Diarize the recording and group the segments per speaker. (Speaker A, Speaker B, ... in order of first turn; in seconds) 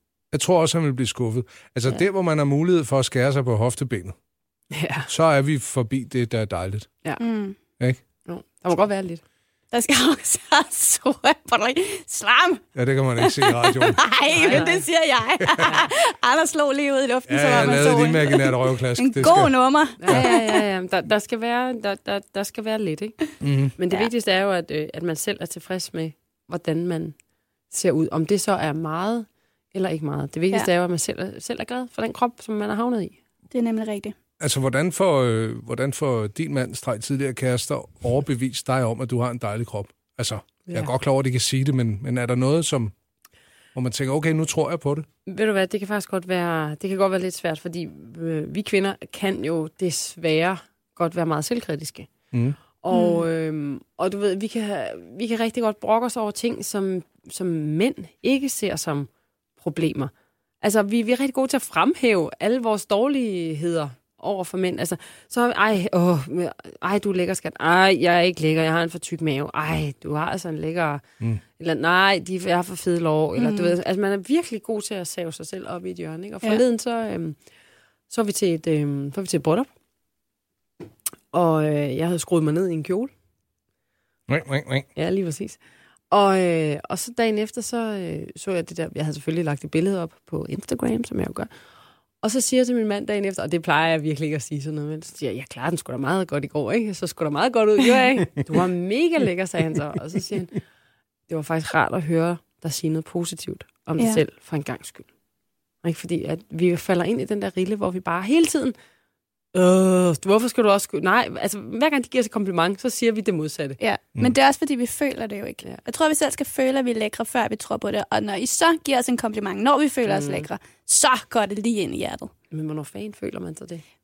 Speaker A: 0.3-4.2, 5.1-6.9, 12.8-14.6, 15.4-15.7, 17.3-19.5, 23.4-23.7, 34.4-42.9, 43.8-45.1, 52.3-52.6, 84.3-84.9
Speaker B: 4.7-5.1, 8.3-9.2, 14.3-14.8, 20.0-23.2, 23.8-27.2, 27.7-33.2, 45.3-52.1, 52.8-71.0, 71.6-77.4, 78.1-79.7, 81.3-83.1, 85.0-85.6, 86.1-91.5, 92.2-100.6, 101.3-105.1, 105.8-108.8, 109.5-113.8, 120.1-120.5, 122.5-123.8
Speaker C: 7.2-7.6, 9.7-12.6, 13.2-20.6, 33.5-34.1, 52.9-53.2, 73.4-73.8, 113.8-122.3